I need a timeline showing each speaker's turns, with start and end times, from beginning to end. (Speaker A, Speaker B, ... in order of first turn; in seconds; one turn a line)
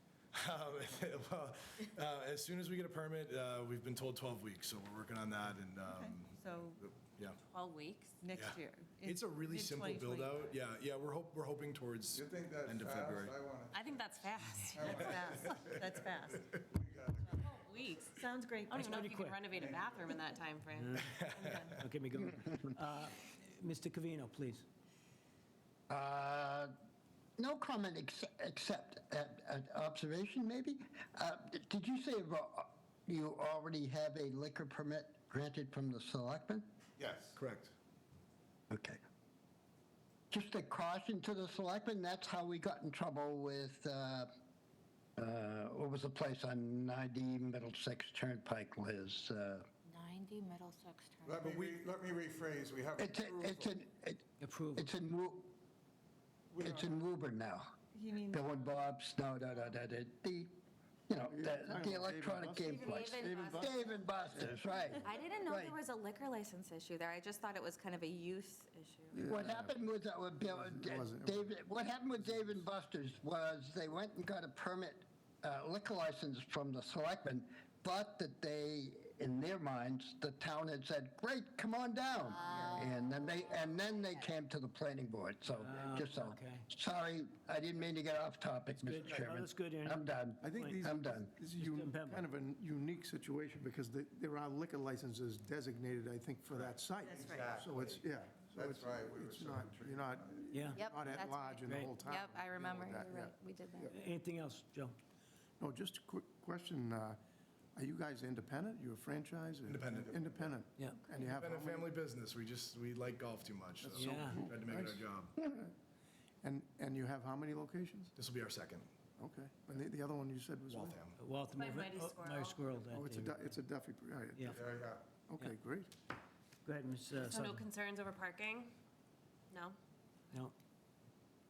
Speaker A: 0.3-7.4
Speaker B: 5.8-6.8
Speaker C: 7.4-8.2
Speaker B: 8.2-10.4
Speaker A: 8.3-13.4
Speaker D: 12.1-13.9
Speaker C: 13.7-15.2
Speaker D: 14.8-17.4
Speaker B: 14.9-16.6
Speaker C: 17.3-21.6
Speaker B: 18.1-19.1
Speaker E: 18.7-19.5
Speaker E: 20.7-24.7
Speaker A: 21.2-21.8
Speaker F: 25.9-26.7
Speaker F: 27.4-36.7
Speaker D: 37.0-37.4
Speaker A: 37.4-37.7
Speaker F: 38.7-39.0
Speaker F: 40.3-44.3
Speaker F: 45.2-49.7
Speaker G: 49.9-51.4
Speaker D: 51.2-53.8
Speaker F: 53.0-55.5
Speaker E: 54.4-54.9
Speaker D: 56.5-57.0
Speaker F: 56.6-57.7
Speaker B: 57.9-58.7
Speaker F: 58.3-60.5
Speaker F: 61.1-65.8
Speaker H: 61.2-65.0
Speaker G: 62.6-64.2
Speaker G: 65.0-69.2
Speaker H: 69.1-69.8
Speaker F: 69.3-91.3
Speaker H: 70.4-72.7
Speaker E: 85.5-86.7
Speaker E: 88.8-92.3
Speaker H: 90.4-104.0
Speaker D: 96.5-100.8
Speaker B: 97.0-97.5
Speaker E: 100.5-100.9
Speaker G: 100.7-103.9
Speaker E: 101.7-102.0
Speaker E: 103.9-105.0
Speaker H: 105.6-107.2
Speaker H: 107.8-111.9
Speaker A: 109.7-110.5
Speaker A: 111.2-115.4
Speaker H: 113.8-115.7
Speaker E: 113.9-114.5
Speaker H: 116.4-118.1
Speaker A: 118.2-118.9
Speaker H: 119.2-121.0
Speaker A: 120.7-121.2
Speaker E: 121.2-123.6
Speaker C: 121.5-122.8
Speaker H: 122.9-125.9
Speaker E: 124.3-124.6
Speaker D: 124.6-125.2
Speaker E: 126.7-127.7
Speaker C: 127.2-128.8
Speaker C: 129.5-129.8